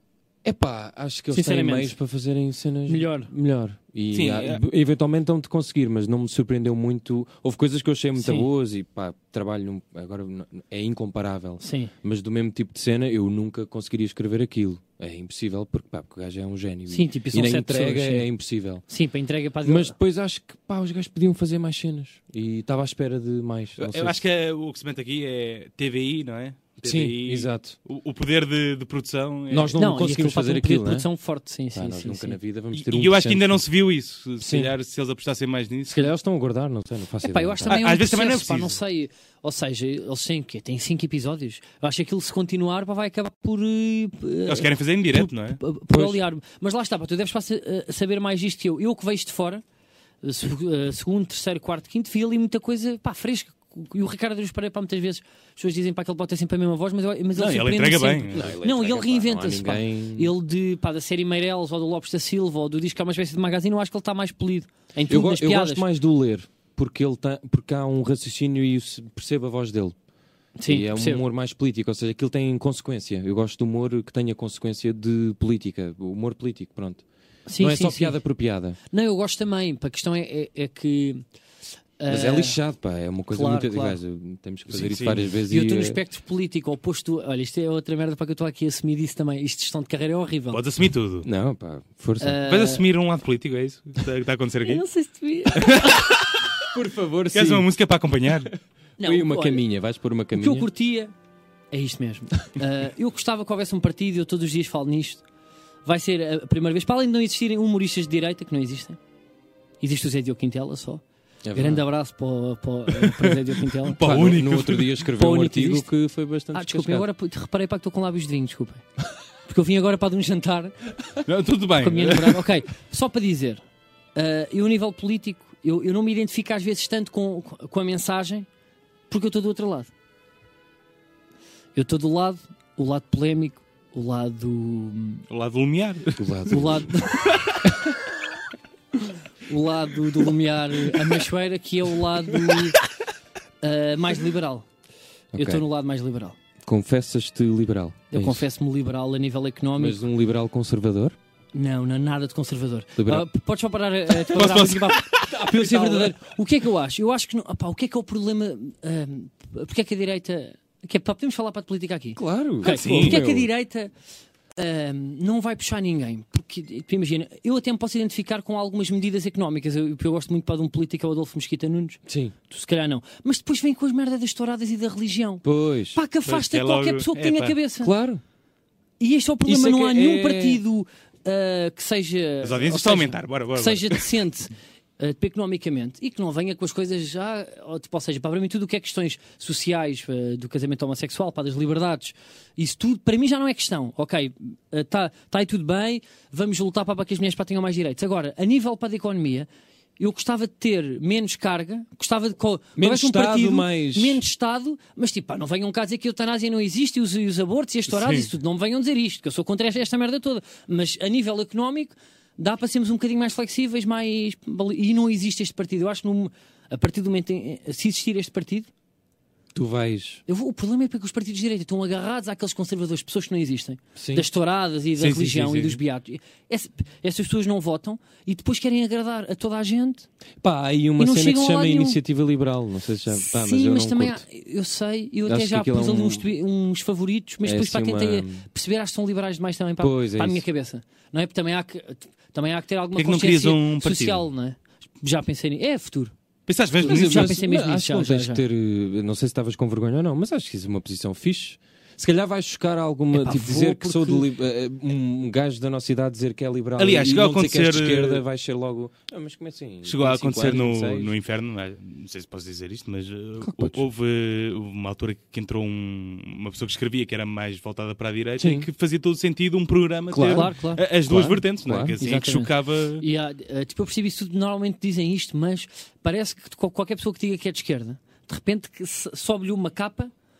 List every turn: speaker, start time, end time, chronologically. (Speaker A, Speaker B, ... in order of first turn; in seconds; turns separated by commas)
Speaker A: 0.4-18.8, Speaker B: 1.3-1.9, Speaker B: 2.9-3.3, Speaker C: 4.1-4.6, Speaker B: 8.2-8.5, Speaker B: 11.6-11.9, Speaker B: 16.9-18.3, Speaker B: 18.9-19.9, Speaker A: 19.6-24.2, Speaker C: 23.8-29.8, Speaker A: 26.8-27.8, Speaker A: 29.5-31.1, Speaker B: 29.8-32.4, Speaker A: 31.7-33.6, Speaker C: 32.7-36.1, Speaker A: 34.4-34.7, Speaker A: 35.9-37.8, Speaker B: 37.2-49.6, Speaker C: 37.7-38.8, Speaker C: 44.5-45.6, Speaker A: 45.9-46.2, Speaker B: 50.2-65.8, Speaker C: 57.4-58.5, Speaker A: 58.3-60.3, Speaker A: 65.1-70.0, Speaker B: 70.6-71.2, Speaker A: 70.7-77.0, Speaker B: 77.5-78.2, Speaker A: 77.6-78.8, Speaker B: 78.9-81.2, Speaker B: 82.0-82.6, Speaker A: 82.1-86.0, Speaker B: 83.3-84.0, Speaker C: 84.7-85.3, Speaker B: 85.5-90.6, Speaker C: 90.5-91.3, Speaker A: 91.2-92.4, Speaker B: 92.2-92.8, Speaker C: 92.4-94.8, Speaker B: 94.6-96.2, Speaker C: 95.5-96.4, Speaker A: 96.6-97.7, Speaker C: 97.3-98.5, Speaker B: 99.0-99.6, Speaker A: 99.0-100.7, Speaker B: 100.3-101.1, Speaker B: 101.7-105.2, Speaker B: 105.8-109.0, Speaker B: 109.8-111.0, Speaker A: 111.5-111.8, Speaker B: 111.5-114.0, Speaker C: 113.8-115.0, Speaker A: 114.0-117.1, Speaker B: 115.2-115.9, Speaker B: 116.5-118.8, Speaker B: 119.5-120.8, Speaker C: 121.2-122.5, Speaker B: 121.8-123.6, Speaker B: 124.1-128.5, Speaker B: 129.1-129.9, Speaker B: 131.7-135.2, Speaker C: 135.3-136.3, Speaker A: 136.2-136.9, Speaker B: 136.5-137.3, Speaker C: 137.2-137.6, Speaker B: 139.4-142.8, Speaker B: 143.6-144.7, Speaker A: 145.3-145.6, Speaker B: 145.3-146.3, Speaker A: 146.6-148.4, Speaker B: 148.1-150.0, Speaker A: 149.8-151.2, Speaker B: 151.5-163.9, Speaker A: 152.9-153.2, Speaker C: 154.3-155.2, Speaker A: 155.1-156.2, Speaker A: 162.2-163.5, Speaker C: 162.6-163.2, Speaker B: 164.6-177.9, Speaker A: 172.1-172.3, Speaker A: 175.4-176.0, Speaker C: 176.2-177.6, Speaker A: 177.8-178.2, Speaker B: 179.0-199.5, Speaker A: 179.4-180.6, Speaker C: 182.4-184.1, Speaker B: 200.0-218.7, Speaker A: 202.8-204.2, Speaker C: 207.9-208.3, Speaker A: 219.5-220.2, Speaker B: 220.3-230.1, Speaker A: 223.9-224.2, Speaker C: 225.0-225.8, Speaker A: 230.4-234.2, Speaker B: 231.0-232.0, Speaker B: 233.1-246.1, Speaker A: 235.3-236.2, Speaker A: 237.4-238.4, Speaker A: 239.8-240.4, Speaker C: 242.9-244.2, Speaker C: 246.5-247.4, Speaker A: 246.8-261.1, Speaker B: 246.8-248.4, Speaker B: 253.1-254.3, Speaker C: 256.8-258.2, Speaker C: 259.8-273.0, Speaker A: 263.4-263.8, Speaker A: 268.4-268.7, Speaker A: 270.1-272.0, Speaker B: 270.3-270.8, Speaker B: 272.0-280.1